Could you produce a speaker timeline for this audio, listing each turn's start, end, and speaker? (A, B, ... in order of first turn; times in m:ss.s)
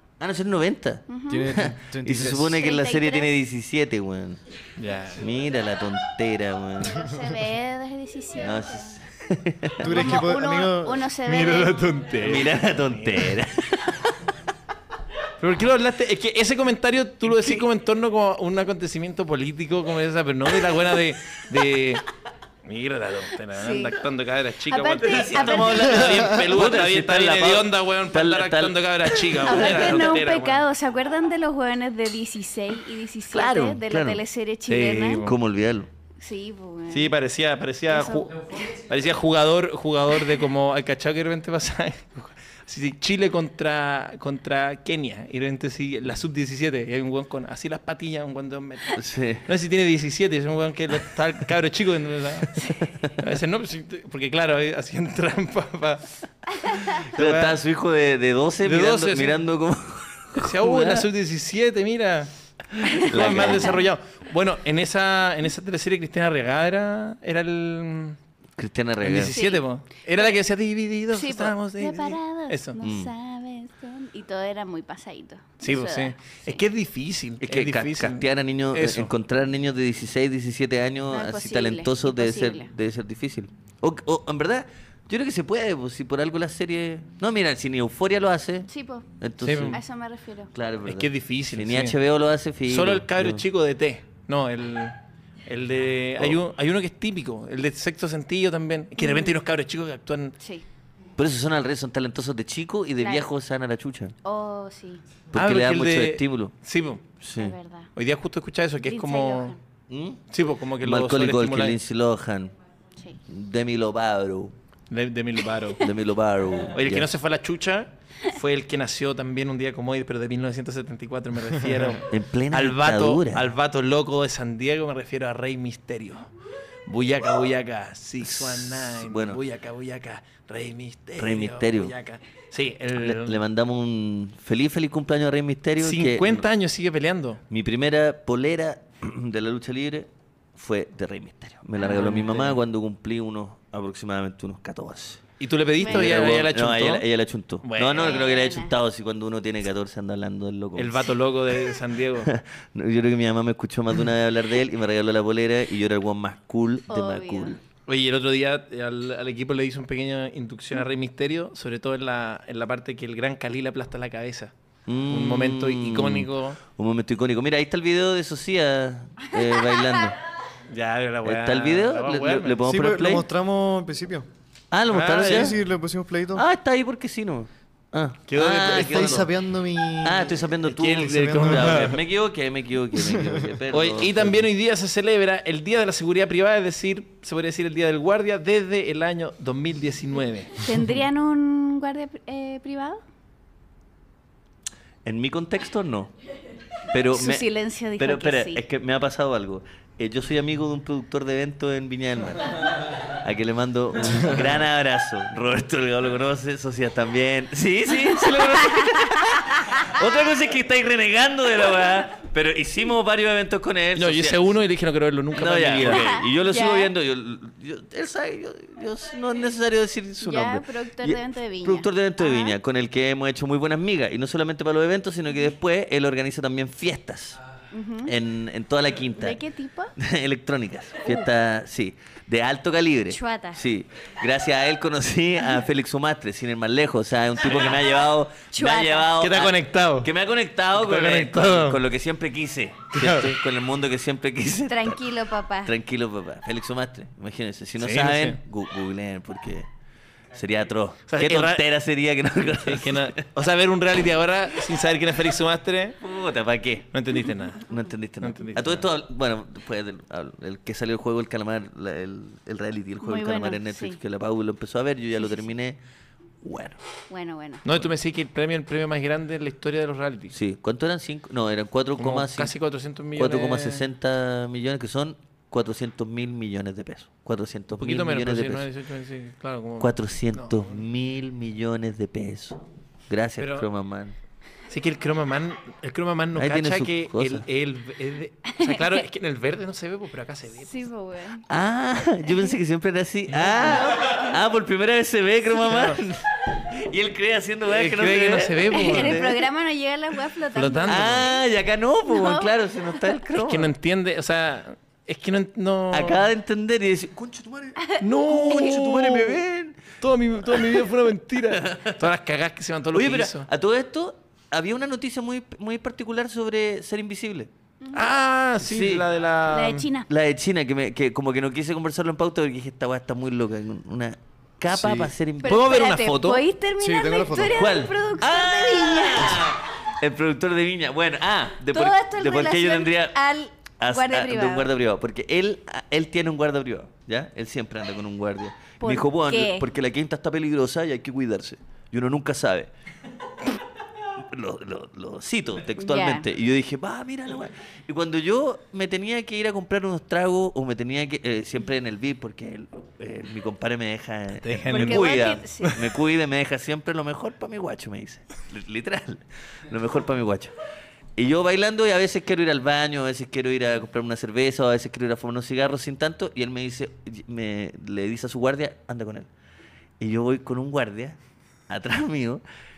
0:00.2-0:04.4 A
0:01.1-0:01.5 B
0:01.3-0:02.6 C
0:02.5-0:03.3 B
0:04.8-0:05.2 D
0:05.2-0:07.2 A
0:06.8-0:09.0 B
0:08.4-0:09.9 A
0:09.8-0:11.1 C
0:09.8-0:11.8 B
0:11.2-0:13.3 D
0:12.2-0:14.2 A
0:15.4-0:22.0 D
0:22.6-0:30.6 D
0:23.6-0:23.9 B
0:24.7-0:26.1 B
0:25.0-0:30.2 A
0:29.4-0:35.2 B
0:33.3-0:34.2 A
0:34.7-0:35.4 D
0:35.2-0:35.9 A
0:36.2-0:37.1 B
0:36.9-0:56.0 D
0:37.9-0:38.5 B
0:48.9-0:49.4 A
0:52.8-0:53.2 A
0:56.6-0:56.9 B
0:56.6-0:57.6 D
0:57.0-1:01.1 A
0:58.6-0:59.4 D
1:00.4-1:08.2 D
1:02.8-1:03.8 B
1:03.0-1:03.8 A
1:08.6-1:09.4 A
1:09.0-1:12.8 D
1:09.3-1:09.6 B
1:11.1-1:16.6 B
1:12.8-1:13.1 A
1:15.6-1:19.1 D
1:17.4-1:28.7 A
1:21.1-1:22.7 B
1:28.7-1:29.0 B
1:29.2-1:29.8 A
1:29.4-1:29.8 D
1:29.7-1:30.5 B
1:30.5-1:33.4 A
1:30.8-1:32.0 D
1:32.7-1:34.9 D
1:35.4-1:40.4 D
1:39.0-1:39.4 B
1:41.2-1:44.1 A
1:43.0-1:43.2 B
1:44.2-1:45.0 B
1:45.3-1:46.5 A
1:45.3-1:47.0 D
1:47.2-1:47.5 A
1:47.4-1:47.9 B
1:48.0-1:49.5 D
1:48.8-1:49.6 B
1:49.9-1:50.2 A
1:50.3-1:51.8 D
1:50.8-1:52.5 A
1:53.2-1:54.5 A
1:54.9-1:55.8 D
1:55.8-1:57.1 A
1:56.7-2:06.3 D
2:02.1-2:03.5 A
2:06.9-2:13.4 D
2:08.2-2:09.4 A
2:11.2-2:11.9 A
2:12.9-2:16.4 A
2:15.8-2:17.4 D
2:17.5-2:31.1 A
2:21.8-2:22.6 D
2:21.8-2:22.2 B
2:25.4-2:27.0 D
2:25.8-2:26.0 B
2:27.6-2:28.2 D
2:27.9-2:28.7 B
2:30.8-2:32.3 D
2:32.2-2:37.6 A
2:36.9-2:37.6 B
2:37.8-2:44.5 D
2:44.8-2:50.2 A
2:45.1-2:46.6 D
2:49.3-2:50.0 B
2:50.7-2:52.6 D
2:51.2-2:53.2 A
2:52.6-2:54.3 C
2:54.7-2:55.6 A
2:54.9-2:55.6 D
2:55.2-2:56.4 C
2:56.3-2:59.3 A
2:58.3-2:59.2 D
2:58.5-3:02.0 C
3:00.0-3:04.5 A
3:00.6-3:02.0 D
3:02.9-3:03.5 C
3:03.7-3:10.6 D
3:10.6-3:13.0 B
3:15.0-3:16.1 A
3:16.9-3:17.4 A
3:17.1-3:18.6 B
3:18.0-3:34.6 A
3:28.0-3:29.4 B
3:34.0-3:36.1 D
3:35.3-3:47.4 A
3:35.8-3:36.9 B
3:40.2-3:42.6 B
3:47.7-3:48.1 B
3:48.0-3:49.4 A
3:49.2-3:49.9 B
3:50.0-4:05.1 A
3:53.1-3:53.6 B
3:58.5-3:59.1 B
3:59.2-4:00.1 D
4:00.7-4:01.8 D
4:02.9-4:03.3 D
4:04.7-4:05.7 B
4:05.6-4:09.7 A
4:07.8-4:08.4 D
4:10.3-4:13.2 A
4:11.1-4:11.6 D
4:12.6-4:16.0 D
4:16.0-4:16.9 A
4:16.9-4:17.6 D
4:17.7-4:25.8 A
4:18.2-4:18.8 D
4:23.0-4:24.0 B
4:26.4-4:26.8 A
4:27.1-4:27.6 B
4:27.6-4:30.3 D
4:30.3-4:32.5 A
4:32.0-4:33.8 D
4:33.1-4:38.7 A
4:37.7-4:40.8 D
4:39.8-4:44.1 A
4:43.4-4:43.7 D
4:44.7-4:50.9 D
4:46.3-4:47.4 A
4:48.6-4:49.0 B
4:50.6-4:51.5 B
4:51.5-4:59.4 A
4:53.3-4:53.8 D
4:55.6-4:56.0 D
4:57.7-4:59.2 D
4:58.7-5:01.4 B
5:00.5-5:01.3 D
5:00.8-5:03.7 A
5:02.0-5:03.0 B
5:03.4-5:06.2 D
5:05.9-5:10.8 A
5:07.8-5:08.7 B
5:08.0-5:09.4 D
5:10.0-5:13.5 D
5:11.5-5:12.0 A
5:12.9-5:17.5 A
5:17.8-5:18.1 B
5:17.9-5:19.9 D
5:18.6-5:19.1 A
5:19.5-5:20.1 B
5:20.1-5:26.4 A
5:24.7-5:25.1 C
5:25.4-5:29.6 B
5:25.4-5:26.4 D
5:26.8-5:27.6 C
5:27.5-5:33.2 A
5:31.7-5:34.7 B
5:33.8-5:42.7 A
5:38.8-5:39.6 B
5:44.2-6:00.5 A
5:45.8-5:46.2 B
5:54.4-5:55.8 D
5:54.7-5:55.7 B
6:01.2-6:09.3 A
6:10.0-6:11.2 A
6:11.7-6:12.4 A